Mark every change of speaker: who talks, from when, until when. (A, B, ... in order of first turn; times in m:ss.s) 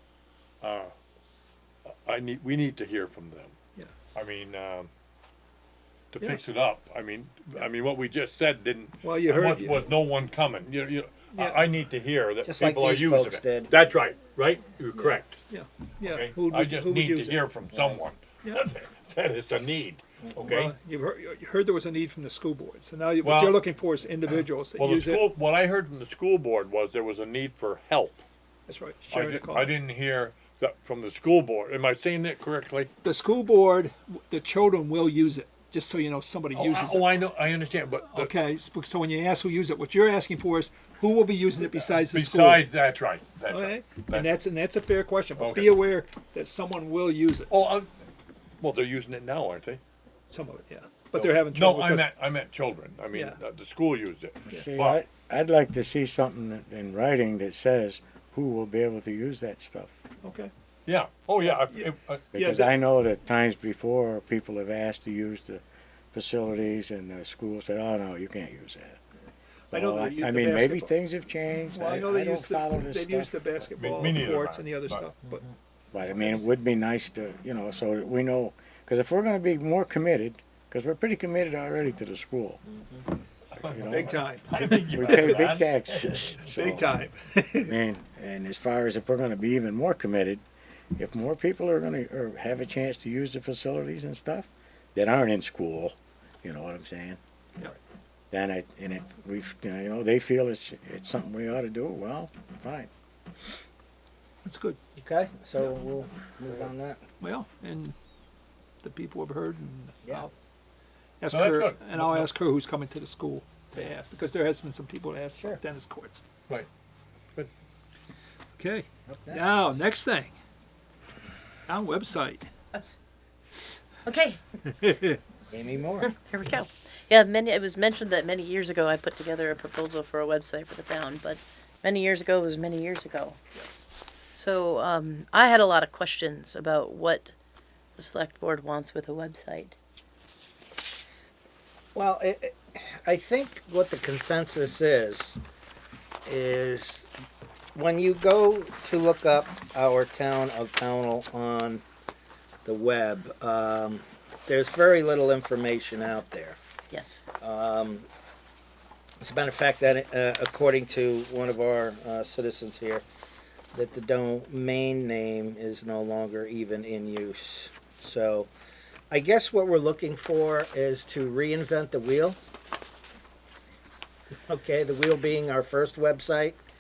0:00.6-0:00.9 A
0:01.9-0:03.6 A
0:04.1-0:04.9 A
0:06.1-0:15.4 A
0:09.0-0:09.9 B
0:11.3-0:11.7 B
0:12.4-0:13.7 C
0:15.0-0:17.5 B
0:16.1-0:20.7 A
0:17.7-0:18.0 C
0:20.4-0:25.3 B
0:23.2-0:23.6 A
0:24.8-0:28.3 A
0:28.7-0:29.8 B
0:29.2-0:32.9 A
0:33.0-0:37.3 B
0:36.6-0:38.3 A
0:38.0-0:42.8 B
0:42.0-0:44.2 A
0:43.5-0:47.5 B
0:45.4-0:45.8 A
0:47.5-0:47.9 A
0:48.6-0:49.8 A
0:50.3-0:52.2 B
0:51.2-0:55.0 A
0:53.1-0:53.4 B
0:54.4-1:00.0 D
1:00.2-1:00.5 B
1:00.9-1:02.2 A
1:01.4-1:02.7 B
1:02.3-1:09.0 D
1:09.7-1:10.9 B
1:09.7-1:14.1 D
1:11.7-1:15.4 B
1:14.0-1:14.6 A
1:15.9-1:22.6 D
1:16.1-1:16.4 B
1:22.7-1:23.0 C
1:23.6-1:24.2 D
1:23.8-1:27.8 B
1:24.9-1:26.9 D
1:27.6-1:30.4 D
1:31.0-1:37.2 D
1:38.3-1:42.9 D
1:44.4-1:44.8 B
1:45.0-1:47.0 C
1:47.2-1:48.0 B
1:48.8-1:50.3 B
1:51.2-1:56.2 B
1:51.3-1:52.0 A
1:58.6-2:00.3 B
1:59.1-1:59.6 C
2:01.7-2:02.5 B
2:04.0-2:04.4 E
2:04.7-2:05.2 B
2:05.5-2:06.1 C
2:06.0-2:13.4 E
2:13.6-2:13.9 B
2:14.3-2:17.3 E
2:18.0-2:19.8 E
2:22.0-2:25.4 C
2:26.2-2:27.1 C
2:27.7-2:31.8 C
2:32.6-2:36.6 C
2:36.9-2:37.2 E
2:37.4-2:38.1 C
2:39.2-2:43.0 C
2:43.7-2:48.5 C
2:49.1-2:52.4 C
2:54.5-2:56.6 C